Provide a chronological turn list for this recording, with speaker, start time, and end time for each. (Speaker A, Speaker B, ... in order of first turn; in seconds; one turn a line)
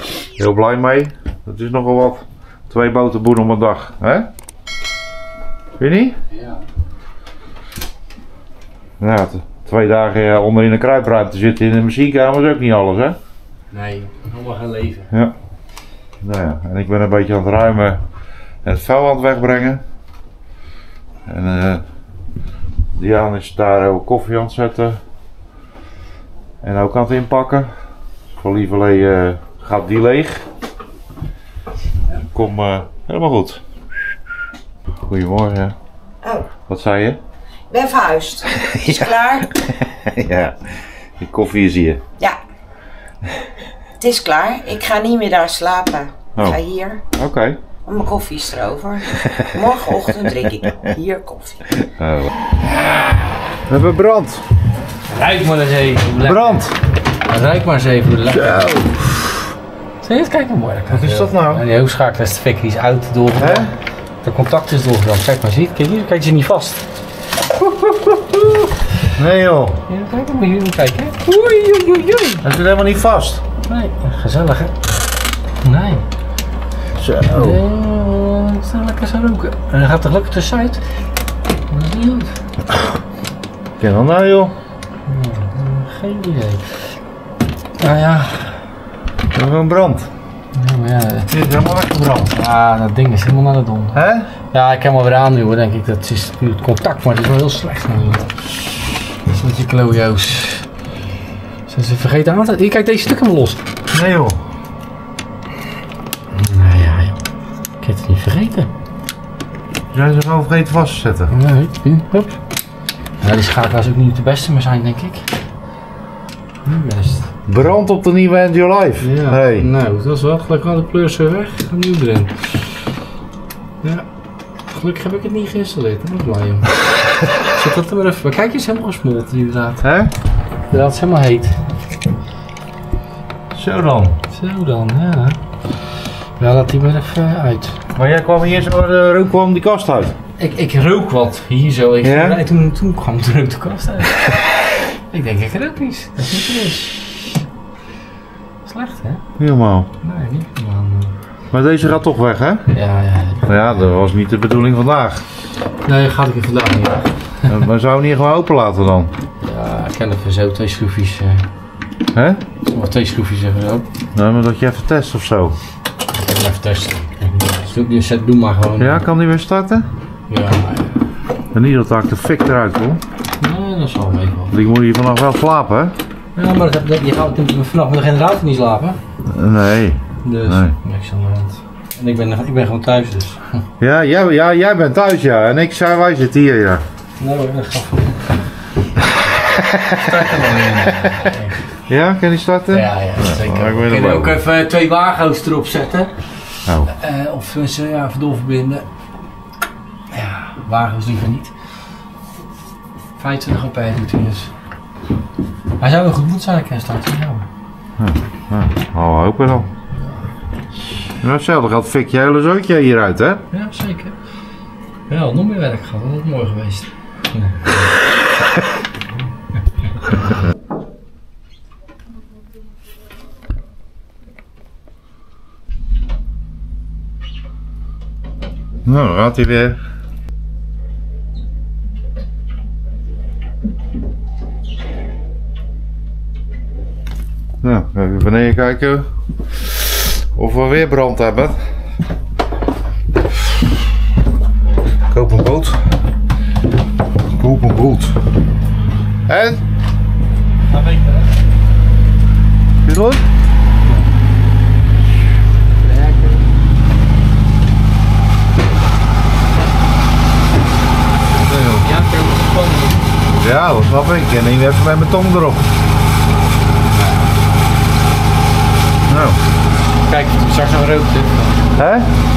Speaker A: 0.4-4.3
Speaker A: 5.8-6.2
Speaker B: 6.3-6.6
Speaker A: 9.0-13.2
Speaker B: 13.7-15.1
Speaker A: 16.2-18.0
Speaker A: 18.6-19.8
Speaker A: 21.3-21.8
Speaker A: 23.0-25.0
Speaker A: 26.6-27.8
Speaker A: 28.4-30.5
Speaker A: 32.3-33.6
Speaker A: 35.0-35.8
Speaker C: 36.2-36.5
Speaker A: 36.7-37.2
Speaker C: 37.7-39.5
Speaker A: 38.7-42.0
Speaker C: 44.0-47.0
Speaker A: 46.4-46.6
Speaker A: 47.1-47.6
Speaker C: 47.9-51.6
Speaker A: 49.2-49.5
Speaker A: 51.9-52.3
Speaker A: 53.7-54.5
Speaker B: 55.1-56.7
Speaker A: 56.2-56.7
Speaker B: 57.2-59.4
Speaker A: 58.3-58.8
Speaker B: 60.0-66.8
Speaker A: 60.9-61.6
Speaker A: 63.4-63.7
Speaker A: 67.6-68.2
Speaker A: 69.2-69.8
Speaker B: 69.9-72.4
Speaker A: 72.4-73.4
Speaker B: 73.7-74.8
Speaker B: 75.6-76.1
Speaker A: 77.0-77.6
Speaker B: 77.3-80.8
Speaker B: 81.7-82.3
Speaker A: 83.8-84.5
Speaker B: 85.1-86.8
Speaker B: 87.8-88.6
Speaker A: 89.3-90.1
Speaker B: 90.5-91.3
Speaker A: 91.3-92.3
Speaker B: 92.3-94.0
Speaker A: 93.9-94.3
Speaker B: 94.5-98.3
Speaker B: 99.3-100.7
Speaker B: 101.7-103.6
Speaker A: 103.9-104.4
Speaker B: 106.3-107.2
Speaker B: 107.8-108.7
Speaker A: 109.9-111.3
Speaker B: 111.3-112.4
Speaker B: 113.2-115.3
Speaker B: 116.7-117.3
Speaker A: 117.5-119.7
Speaker B: 119.0-122.5
Speaker B: 124.7-126.7
Speaker B: 127.5-129.8
Speaker A: 129.8-130.1
Speaker B: 130.7-131.6
Speaker A: 133.5-134.2
Speaker B: 134.3-135.4
Speaker B: 136.4-137.8
Speaker A: 138.0-140.2
Speaker B: 140.4-144.2
Speaker A: 142.0-142.4
Speaker B: 145.1-146.9
Speaker B: 148.7-149.2
Speaker A: 149.4-149.9
Speaker B: 150.0-151.2
Speaker A: 151.5-152.7
Speaker B: 152.7-153.5
Speaker A: 153.5-155.2
Speaker B: 155.8-157.5
Speaker A: 157.5-159.1
Speaker B: 159.4-161.5
Speaker A: 162.1-162.4
Speaker B: 162.7-163.9
Speaker A: 164.2-165.6
Speaker B: 166.2-169.0
Speaker A: 168.8-169.9
Speaker B: 170.3-171.0
Speaker A: 171.5-173.0
Speaker B: 173.4-174.6
Speaker A: 174.5-176.0
Speaker B: 176.3-179.0
Speaker A: 179.3-180.8
Speaker B: 180.2-183.6
Speaker A: 183.8-186.8
Speaker B: 187.2-188.4
Speaker A: 189.5-189.9
Speaker B: 189.9-191.6
Speaker A: 191.9-194.4
Speaker B: 192.7-196.2
Speaker A: 196.7-196.9
Speaker B: 196.9-198.9
Speaker B: 200.1-201.6
Speaker B: 203.2-204.5
Speaker B: 205.8-207.5
Speaker A: 208.0-209.7
Speaker A: 211.2-213.4
Speaker B: 213.5-214.2
Speaker B: 215.1-217.8
Speaker A: 228.8-229.8
Speaker A: 237.6-241.7
Speaker A: 245.1-245.9
Speaker A: 247.3-248.2
Speaker A: 249.3-249.6
Speaker B: 250.7-251.3
Speaker A: 252.9-253.2
Speaker B: 255.8-256.4
Speaker A: 261.4-261.9
Speaker B: 261.8-263.1
Speaker A: 263.4-265.6
Speaker A: 269.1-269.4
Speaker B: 270.1-271.7
Speaker A: 271.8-272.1